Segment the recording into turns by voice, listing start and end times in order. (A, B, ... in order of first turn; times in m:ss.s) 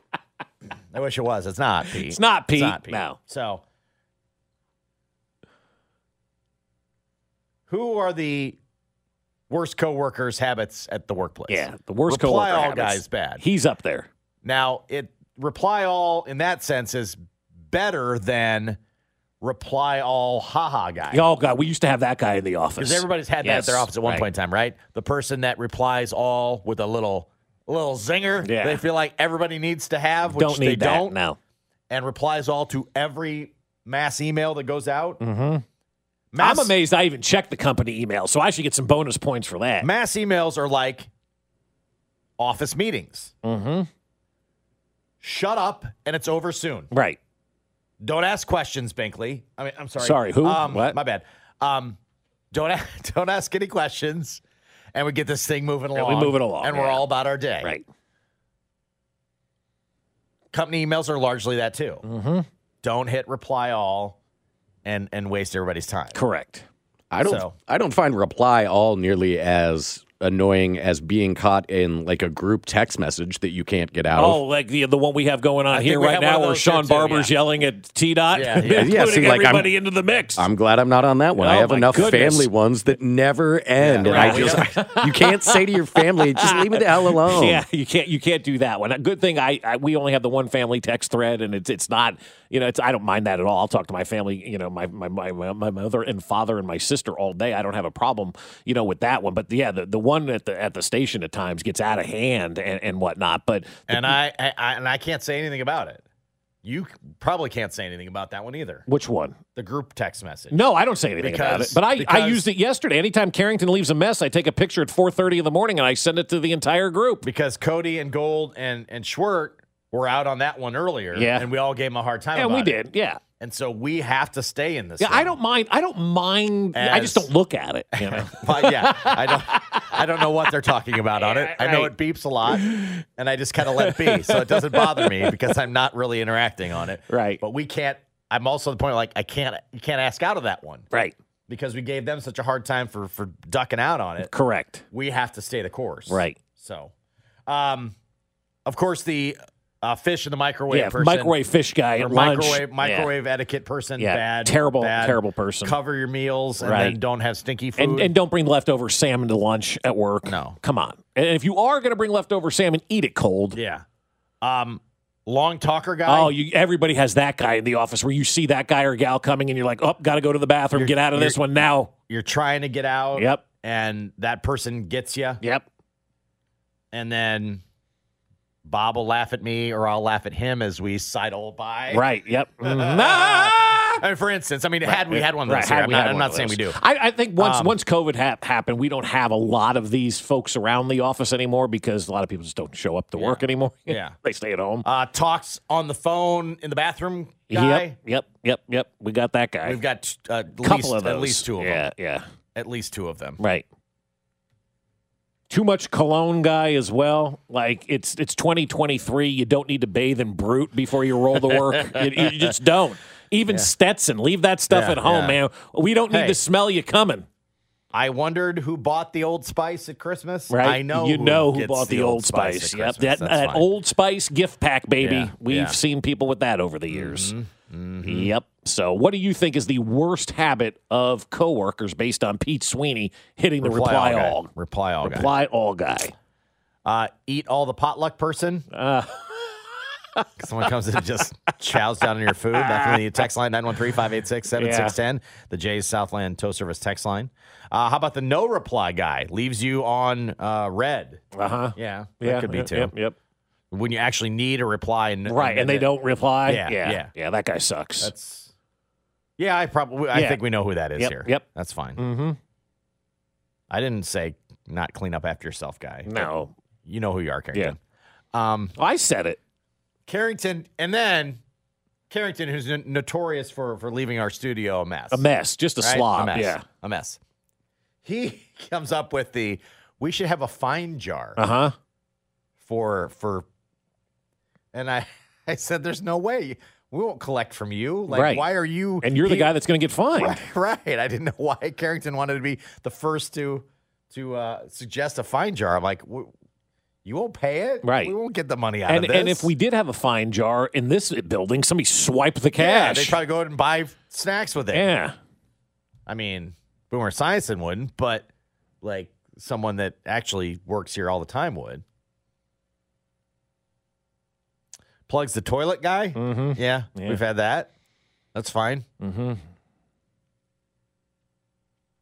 0:00.9-0:03.6 A
0:01.9-0:03.2 B
0:07.7-0:08.6 A
0:09.5-0:13.4 A
0:11.5-0:14.1 B
0:14.4-0:17.2 A
0:17.7-0:18.8 A
0:19.4-0:21.3 A
0:21.1-0:24.3 B
0:22.8-0:31.2 A
0:28.4-0:28.8 B
0:30.3-0:31.4 B
0:31.9-0:35.2 A
0:35.2-0:35.6 B
0:36.3-0:36.7 A
0:36.4-0:39.9 B
0:39.8-0:41.1 A
0:42.4-0:43.3 A
0:43.4-0:43.9 B
0:45.2-0:46.9 A
0:46.9-0:47.2 B
0:48.0-0:52.0 A
0:50.0-0:51.0 B
0:52.5-0:54.4 A
0:54.9-0:57.8 A
0:55.9-0:57.0 B
1:00.5-1:02.0 A
1:02.0-1:02.5 B
1:02.8-1:04.2 A
1:04.8-1:06.2 A
1:06.1-1:06.7 B
1:07.1-1:14.4 C
1:07.2-1:07.6 A
1:14.2-1:20.4 B
1:15.7-1:17.3 A
1:18.3-1:19.3 A
1:18.7-1:19.7 C
1:20.4-1:27.6 C
1:21.4-1:22.5 B
1:23.8-1:24.9 A
1:24.0-1:44.2 B
1:43.9-1:46.0 A
1:46.6-1:48.9 A
1:48.9-1:49.4 B
1:49.6-1:50.6 A
1:50.5-1:57.2 B
1:51.2-1:52.4 A
1:57.2-2:02.8 A
2:01.1-2:01.5 B
2:02.4-2:03.2 B
2:03.4-2:05.4 A
2:05.0-2:10.3 B
2:06.7-2:07.3 A
2:08.0-2:20.9 A
2:11.1-2:11.9 B
2:12.5-2:13.0 B
2:13.7-2:15.4 B
2:17.1-2:17.4 B
2:21.5-2:24.3 A
2:24.2-2:24.8 B
2:24.9-2:26.9 A
2:26.1-2:26.4 B
2:27.5-2:28.0 A
2:28.7-2:31.4 A
2:30.7-2:33.1 B
2:32.0-2:38.1 A
2:34.0-2:35.8 B
2:36.6-2:37.0 B
2:37.8-2:43.6 B
2:40.3-2:40.6 A
2:43.5-2:43.8 A
2:44.4-2:46.3 A
2:46.1-2:51.9 B
2:50.8-2:51.4 A
2:52.1-2:55.4 A
2:53.2-2:53.4 B
2:55.4-2:55.7 B
2:56.9-2:57.6 A
2:58.6-3:02.0 A
3:01.9-3:04.0 B
3:02.6-3:06.8 A
3:04.8-3:14.9 B
3:07.4-3:07.8 A
3:13.2-3:14.2 A
3:14.8-3:18.0 A
3:17.5-3:19.8 B
3:19.6-3:21.9 A
3:20.6-3:22.2 B
3:22.6-3:23.4 A
3:23.4-3:23.6 B
3:25.5-3:37.3 B
3:31.8-3:32.5 A
3:34.7-3:35.4 A
3:36.1-3:36.4 A
3:37.9-3:43.7 A
3:40.5-3:47.3 B
3:45.0-3:45.8 A
3:46.9-3:48.3 A
3:48.0-3:54.5 B
3:53.6-3:55.3 A
3:55.0-3:56.1 B
3:56.8-3:58.7 A
3:58.7-4:00.3 B
4:00.4-4:11.2 A
4:02.5-4:03.0 B
4:04.6-4:05.0 B
4:11.3-4:13.2 B
4:11.8-4:12.9 A
4:13.7-4:15.9 A
4:15.3-4:18.1 B
4:16.4-4:17.1 A
4:18.0-4:18.5 A
4:19.4-4:22.0 A
4:20.1-4:20.4 B
4:21.0-4:21.4 B
4:22.0-4:22.4 B
4:23.7-4:26.3 A
4:26.1-4:26.5 B
4:26.8-4:27.8 A
4:28.3-4:28.7 A
4:28.8-4:29.4 B
4:30.1-4:31.4 A
4:32.1-4:35.3 A
4:35.1-4:36.6 B
4:35.8-4:37.2 A
4:38.0-4:41.4 A
4:41.4-4:41.8 B
4:42.6-4:43.5 A
4:44.7-4:49.5 A
4:48.1-4:48.4 B
4:49.0-4:50.4 B
4:50.2-4:56.3 A
4:57.0-4:59.5 A
4:57.8-4:58.2 B
4:58.9-5:03.2 B
5:02.6-5:04.9 A
5:04.7-5:05.2 B
5:06.1-5:08.3 A
5:08.8-5:11.8 A
5:15.1-5:17.7 A
5:16.2-5:17.2 B
5:18.3-5:18.9 A
5:19.0-5:19.4 B